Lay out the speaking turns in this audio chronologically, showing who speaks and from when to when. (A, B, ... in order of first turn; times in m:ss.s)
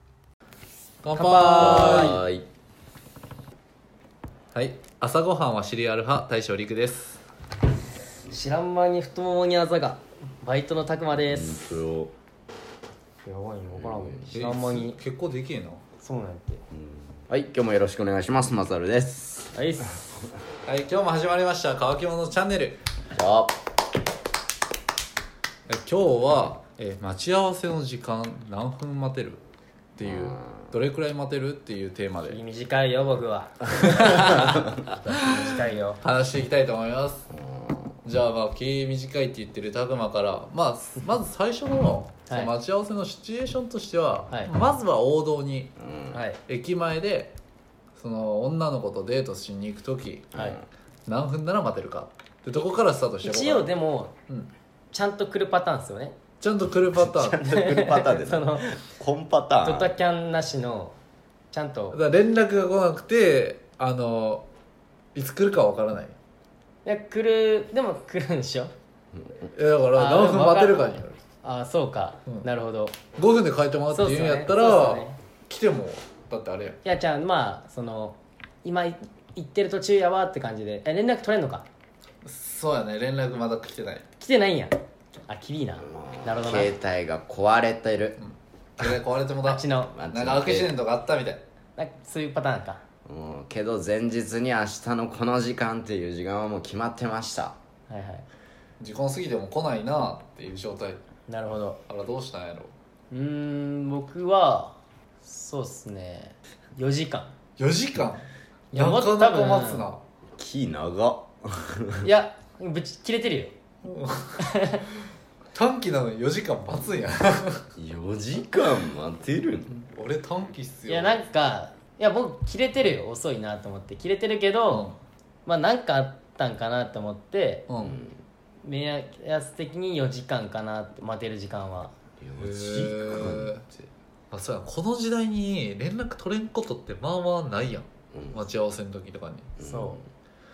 0:01.0-0:02.2 A
0:01.1-0:02.2 B
0:01.5-0:02.4 C
0:04.5-0:07.2 A
0:08.3-0:11.7 B
0:11.3-0:12.1 C
0:13.2-0:15.0 B
0:13.7-0:14.4 C
0:14.3-0:15.8 A
0:16.0-0:16.6 B
0:16.7-0:19.6 C
0:19.5-0:20.3 B
0:20.6-0:22.8 A
0:23.1-0:23.6 C
0:25.7-0:29.4 A
0:30.0-0:32.4 A
0:30.0-0:30.7 C
0:32.2-0:36.0 B
0:34.0-0:34.4 A
0:35.4-0:37.3 A
0:37.3-0:38.0 C
0:38.0-0:45.7 A
0:42.2-0:42.5 B
0:45.8-0:46.2 C
0:46.1-0:46.4 B
0:46.5-0:47.3 A
0:48.0-0:50.3 A
0:50.3-0:50.6 C
0:51.1-0:53.7 A
0:53.2-0:54.1 B
0:54.9-0:56.2 B
0:56.4-0:57.4 A
0:56.9-0:59.9 C
0:57.4-0:58.7 B
0:59.6-1:00.9 B
1:01.5-1:02.0 B
1:01.9-1:04.4 A
1:05.1-1:06.2 A
1:06.8-1:08.7 B
1:09.1-1:09.4 C
1:09.5-1:11.2 A
1:09.9-1:13.0 B
1:13.2-1:16.8 A
1:13.9-1:15.2 B
1:16.8-1:21.7 B
1:22.2-1:24.0 A
1:24.2-1:26.7 B
1:25.8-1:28.2 C
1:28.2-1:31.4 A
1:29.4-1:29.9 B
1:29.9-1:30.8 C
1:31.8-1:32.8 B
1:33.0-1:37.6 C
1:37.9-1:38.2 B
1:38.8-1:41.0 A
1:41.3-1:41.8 B
1:41.9-1:42.7 A
1:43.1-1:47.3 B
1:47.6-1:50.0 A
1:48.7-1:49.9 B
1:50.4-1:52.1 C
1:52.0-1:53.5 B
1:53.8-1:54.4 A
1:54.4-1:54.8 B
1:55.5-1:57.6 A
1:57.8-1:59.8 C
1:59.8-2:01.2 A
2:00.9-2:04.9 B
2:04.7-2:05.0 A
2:05.4-2:07.6 B
2:07.7-2:08.0 A
2:07.8-2:08.2 C
2:08.6-2:11.9 B
2:12.2-2:13.9 C
2:12.4-2:13.6 A
2:14.3-2:19.5 A
2:18.1-2:18.4 C
2:19.6-2:20.0 B
2:19.6-2:20.0 C